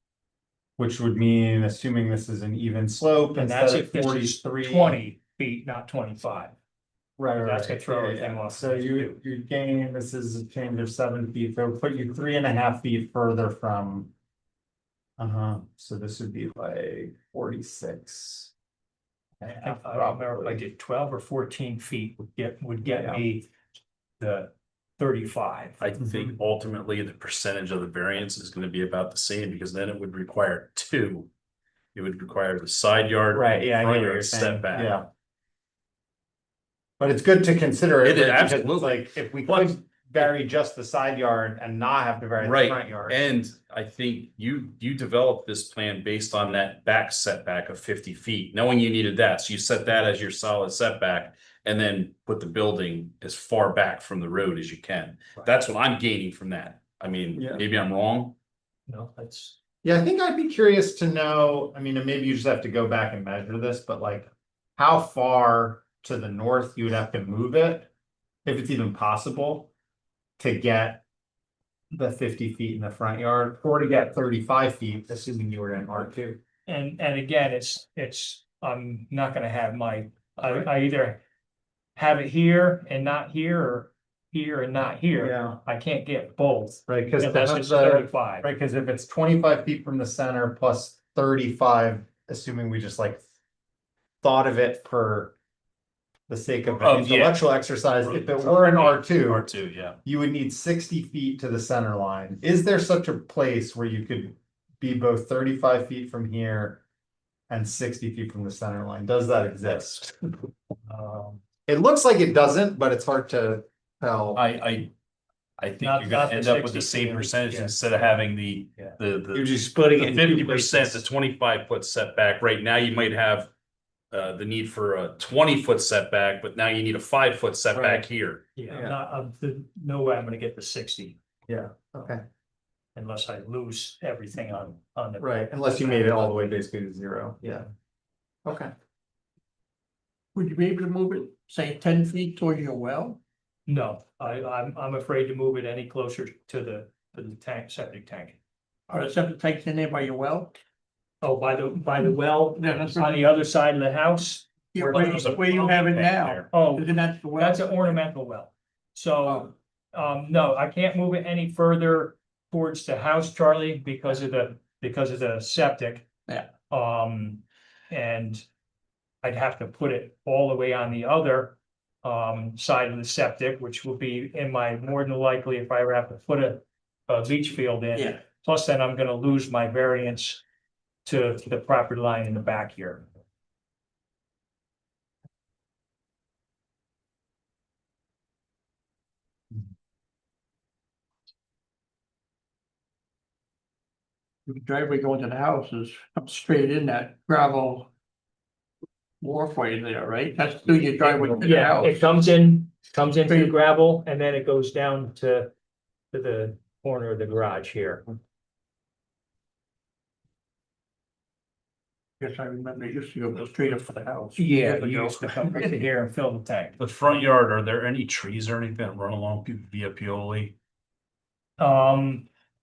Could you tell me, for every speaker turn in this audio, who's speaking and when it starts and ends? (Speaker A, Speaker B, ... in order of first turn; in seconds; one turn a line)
Speaker A: 0.8-5.0
Speaker B: 3.3-6.5
Speaker A: 7.2-14.1
Speaker B: 7.4-9.2
Speaker A: 15.2-18.5
Speaker A: 19.4-20.6
Speaker B: 19.5-23.5
Speaker A: 22.9-23.2
Speaker B: 24.2-25.8
Speaker C: 25.8-31.3
Speaker C: 31.9-35.0
Speaker A: 33.3-35.1
Speaker A: 37.0-43.2
Speaker C: 38.0-39.8
Speaker C: 42.4-58.4
Speaker A: 57.4-57.6
Speaker B: 58.9-59.6
Speaker A: 59.8-67.9
Speaker A: 68.5-69.7
Speaker A: 70.4-71.0
Speaker A: 71.9-76.4
Speaker B: 76.7-81.2
Speaker B: 82.0-88.5
Speaker A: 85.2-85.6
Speaker A: 86.9-93.2
Speaker A: 94.2-95.3
Speaker A: 96.3-99.5
Speaker C: 96.7-100.0
Speaker A: 100.0-106.8
Speaker A: 107.5-110.2
Speaker B: 110.9-111.3
Speaker A: 111.7-114.4
Speaker C: 114.3-114.9
Speaker C: 115.6-123.5
Speaker B: 115.8-117.7
Speaker A: 119.3-121.0
Speaker C: 124.1-128.4
Speaker A: 127.7-128.1
Speaker B: 128.6-131.2
Speaker A: 128.7-129.0
Speaker A: 131.5-132.2
Speaker B: 132.9-136.6
Speaker A: 135.2-137.7
Speaker A: 138.4-138.7
Speaker D: 140.3-143.2
Speaker B: 143.7-148.4
Speaker D: 148.9-150.6
Speaker B: 151.2-155.8
Speaker D: 152.6-153.3
Speaker D: 154.7-157.7
Speaker C: 154.8-156.5
Speaker B: 156.5-166.1
Speaker B: 166.7-168.4
Speaker B: 169.2-180.4
Speaker D: 177.9-178.2
Speaker B: 181.1-183.1
Speaker D: 194.5-197.9
Speaker D: 199.2-202.1
Speaker B: 201.1-205.5
Speaker D: 203.3-203.5
Speaker B: 206.1-208.2
Speaker D: 212.2-215.8
Speaker B: 214.4-216.8
Speaker C: 216.8-220.6
Speaker B: 221.6-222.3